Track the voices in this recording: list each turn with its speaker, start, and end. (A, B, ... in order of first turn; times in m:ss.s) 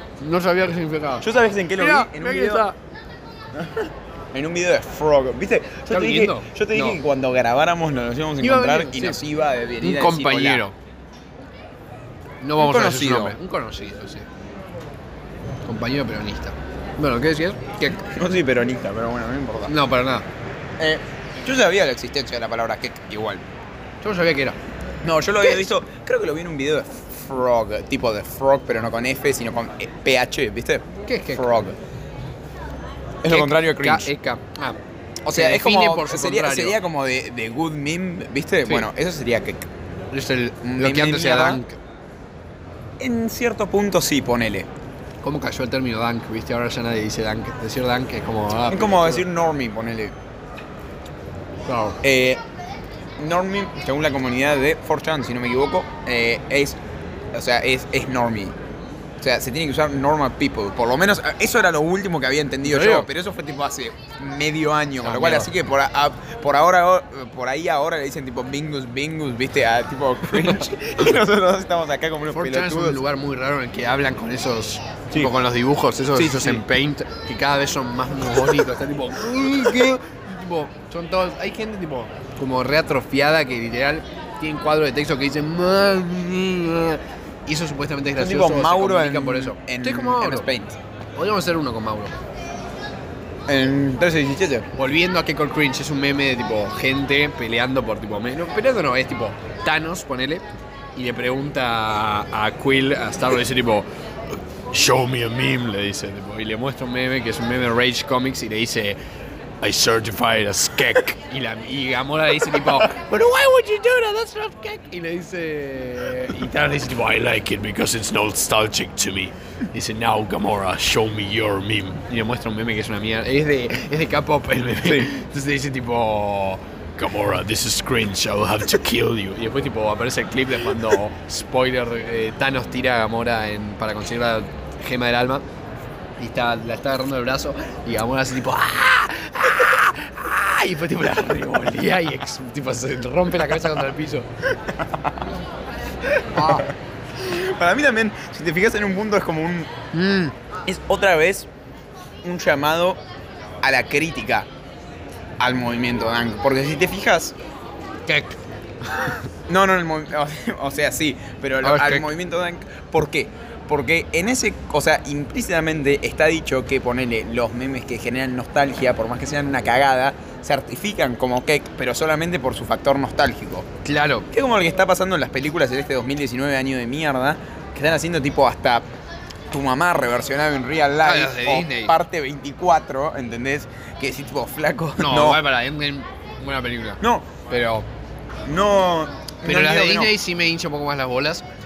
0:00.2-0:02.8 A
0:01.2-0:02.7 B
0:03.5-0:10.6 B
0:05.9-0:07.0 A
0:08.4-0:09.2 A
0:09.8-0:10.8 A
0:12.4-0:14.3 A
0:12.6-0:13.4 B
0:15.6-0:17.8 A
0:17.8-0:19.7 B
0:19.6-0:20.3 A
0:20.8-0:23.4 B
0:24.0-0:24.6 A
0:25.0-0:31.8 B
0:31.1-0:31.5 A
0:33.2-0:34.1 B
0:33.3-0:36.8 A
0:35.3-0:39.7 B
0:40.1-0:41.8 A
0:40.6-0:41.6 B
0:43.0-0:44.7 B
0:45.2-0:49.2 A
0:48.6-0:50.1 B
0:51.7-0:52.0 A
0:52.0-0:52.4 B
0:53.2-0:56.8 B
0:57.3-0:58.6 B
0:59.2-1:13.0 B
1:02.6-1:03.1 A
1:05.0-1:05.5 A
1:10.3-1:10.6 A
1:12.3-1:30.5 A
1:16.2-1:16.6 B
1:28.2-1:30.8 B
1:31.2-1:32.1 A
1:33.5-1:34.7 B
1:34.7-1:49.0 A
1:49.6-2:15.4 A
2:04.8-2:05.1 B
2:16.2-2:24.3 A
2:24.7-2:25.1 B
2:26.3-2:26.7 A
2:26.4-2:29.7 B
2:29.9-2:30.3 A
2:30.7-2:31.5 B
2:32.2-2:33.0 B
2:33.6-2:34.5 B
2:35.4-2:37.4 B
2:38.1-2:39.1 A
2:39.5-2:53.7 B
2:41.6-2:42.1 A
2:53.8-2:54.3 A
2:54.3-2:58.9 B
2:59.5-3:05.4 B
3:01.0-3:01.9 A
3:05.0-3:07.9 A
3:07.0-3:07.3 B
3:08.4-3:10.1 B
3:09.4-3:11.4 A